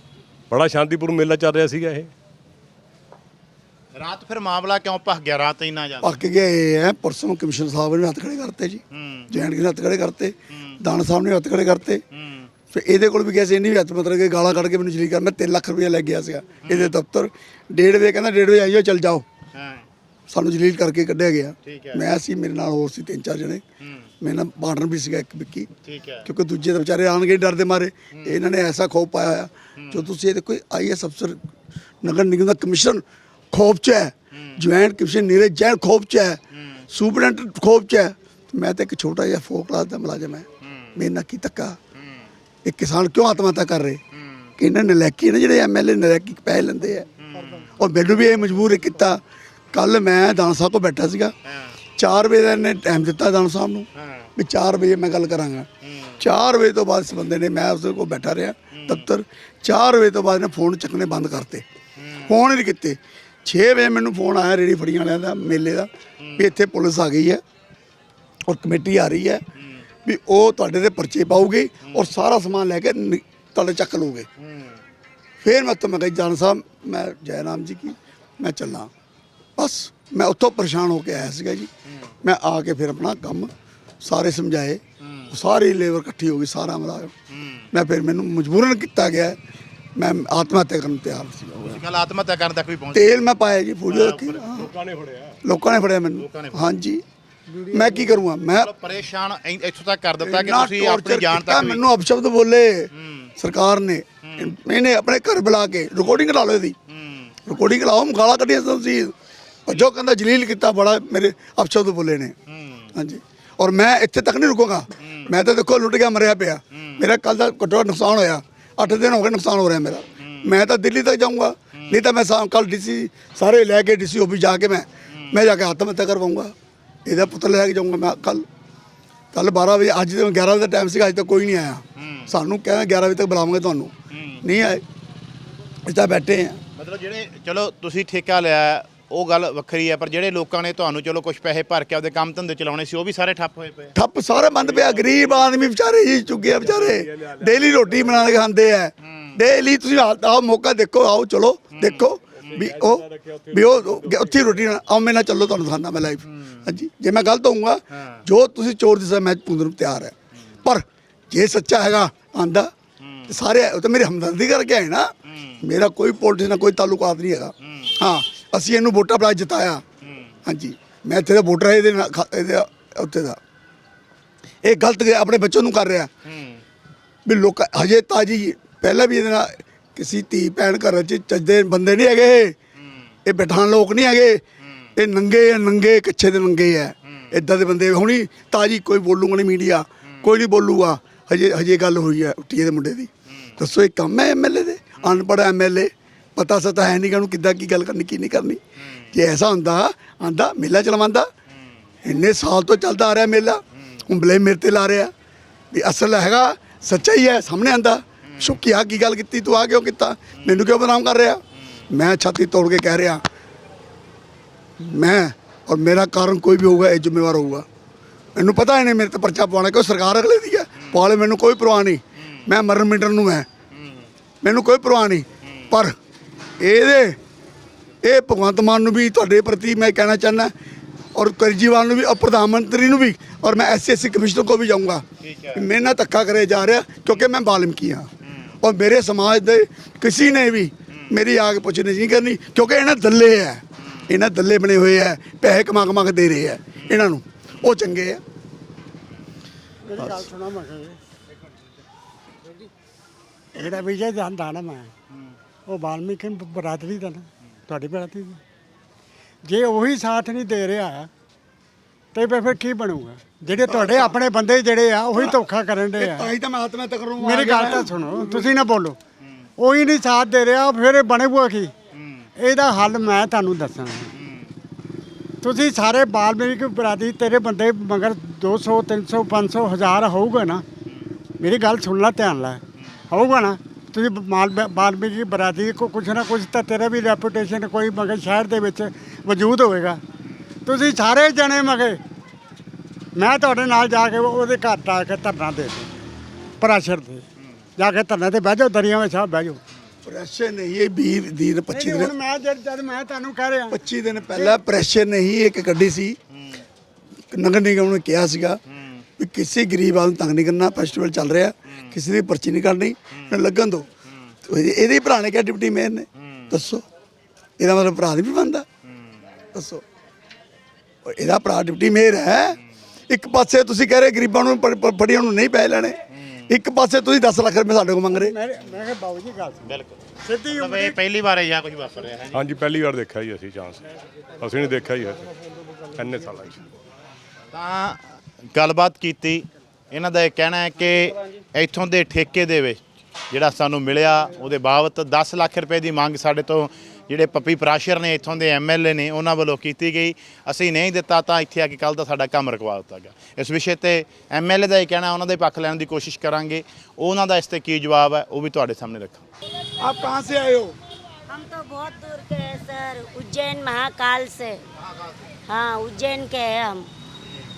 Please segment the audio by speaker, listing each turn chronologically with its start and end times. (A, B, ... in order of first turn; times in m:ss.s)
0:00.5-0:02.1 A
0:04.0-0:06.2 B
0:06.0-0:12.0 C
0:08.9-0:09.3 B
0:10.5-0:10.8 B
0:12.1-0:12.5 B
0:12.7-0:19.2 C
0:16.6-0:16.9 B
0:19.5-0:19.9 B
0:20.3-0:23.6 C
0:21.6-0:22.0 B
0:23.8-0:24.1 B
0:24.2-0:25.7 C
0:25.8-0:26.3 B
0:26.2-0:31.4 C
0:28.1-0:28.4 B
0:29.8-0:30.0 B
0:32.0-0:36.4 C
0:34.3-0:34.6 B
0:36.5-0:36.8 B
0:36.9-0:41.8 C
0:40.6-0:41.0 B
0:41.9-0:42.3 B
0:42.6-0:44.0 C
0:44.1-0:44.5 B
0:44.6-0:47.1 C
0:47.2-0:47.8 B
0:47.8-0:49.2 C
0:49.7-0:51.3 C
0:51.5-0:51.7 B
0:52.0-0:55.7 C
0:54.0-0:54.3 B
0:55.8-0:56.2 B
0:56.2-1:01.6 C
0:58.7-0:59.1 B
1:02.0-1:02.3 B
1:02.3-1:07.4 C
1:06.2-1:06.5 B
1:08.5-1:09.4 C
1:09.6-1:09.9 B
1:10.0-1:14.3 C
1:11.8-1:12.1 B
1:14.4-1:14.8 B
1:15.4-1:18.9 C
1:19.6-1:21.7 C
1:21.8-1:22.1 B
1:22.2-1:23.5 C
1:24.0-1:27.1 C
1:25.0-1:25.3 B
1:27.3-1:27.7 B
1:27.7-1:29.4 C
1:30.0-1:31.8 C
1:31.6-1:33.2 B
1:32.9-1:34.7 C
1:33.9-1:34.4 B
1:34.5-1:35.4 A
1:35.4-1:37.0 C
1:36.1-1:36.7 B
1:37.5-1:38.1 D
1:37.7-1:38.7 C
1:38.5-1:41.8 B
1:40.2-1:46.8 C
1:42.9-1:43.3 B
1:44.2-1:44.5 B
1:46.9-1:47.3 B
1:47.4-1:49.1 C
1:49.6-1:52.3 C
1:52.5-1:52.9 B
1:52.9-2:06.5 C
1:55.0-1:55.3 B
1:56.7-1:57.0 B
2:00.2-2:00.5 B
2:01.8-2:02.0 B
2:05.1-2:05.4 B
2:07.1-2:08.4 C
2:09.3-2:14.8 C
2:12.0-2:12.3 B
2:14.1-2:14.4 B
2:15.8-2:16.6 C
2:16.8-2:24.0 B
2:23.9-2:42.7 C
2:24.4-2:25.4 A
2:26.4-2:28.3 A
2:29.0-2:29.4 B
2:31.7-2:32.6 B
2:32.4-2:34.6 A
2:36.2-2:36.7 B
2:37.9-2:38.2 B
2:43.0-2:43.3 B
2:43.3-2:49.8 C
2:45.2-2:45.6 B
2:47.6-2:48.0 B
2:50.0-2:50.4 B
2:50.4-2:53.4 C
2:54.6-2:56.1 C
2:56.2-2:56.6 B
2:57.2-3:02.6 C
3:02.8-3:03.1 B
3:03.2-3:04.4 C
3:04.6-3:04.9 B
3:05.0-3:18.6 C
3:07.0-3:07.3 B
3:13.3-3:13.6 B
3:18.8-3:19.1 B
3:19.1-3:21.3 C
3:21.5-3:21.9 B
3:22.0-3:25.1 C
3:23.7-3:24.0 B
3:25.7-3:33.2 C
3:28.3-3:28.6 B
3:30.4-3:30.7 B
3:31.6-3:31.8 B
3:34.8-3:37.6 C
3:38.4-3:43.5 C
3:42.2-3:42.4 B
3:43.7-3:44.1 B
3:44.4-3:45.9 C
3:45.4-3:45.7 B
3:46.6-3:47.2 C
3:48.0-3:50.5 C
3:51.1-3:58.1 C
3:55.2-3:55.7 B
3:58.2-3:58.6 B
3:58.6-4:08.2 C
4:03.8-4:04.0 B
4:09.8-4:11.0 D
4:10.0-4:10.2 C
4:13.6-4:14.9 D
4:15.1-4:15.4 B
4:15.7-4:18.4 D
4:19.4-4:21.1 D
4:22.1-4:26.3 D
4:23.6-4:24.2 C
4:25.1-4:25.4 C
4:26.0-4:28.5 C
4:27.2-4:29.0 D
4:29.2-4:29.5 B
4:29.6-4:31.7 D
4:31.9-4:32.3 B
4:32.4-4:34.1 D
4:34.1-4:34.5 B
4:35.4-4:40.6 D
4:41.4-4:50.0 D
4:50.6-4:52.0 D
4:53.2-4:55.9 D
4:56.6-4:57.2 D
4:57.8-4:59.6 D
5:00.0-5:02.1 C
5:01.7-5:03.8 D
5:03.7-5:06.2 C
5:04.0-5:04.3 B
5:06.3-5:06.6 B
5:07.3-5:08.6 C
5:08.7-5:09.1 B
5:09.2-5:13.9 C
5:11.7-5:12.0 B
5:14.0-5:14.4 B
5:14.4-5:16.8 C
5:16.2-5:16.5 B
5:17.6-5:18.6 C
5:18.8-5:19.4 B
5:19.5-5:19.8 C
5:21.1-5:22.6 C
5:23.1-5:28.3 C
5:26.1-5:26.5 B
5:28.1-5:31.0 D
5:29.6-5:32.4 B
5:32.3-5:33.8 A
5:34.4-5:35.2 A
5:36.0-5:36.7 A
5:37.5-5:38.0 B
5:38.5-5:42.8 B
5:43.3-5:59.2 B
5:59.8-6:00.7 C
6:01.3-6:04.6 E
6:04.8-6:05.3 B
6:05.5-6:06.9 E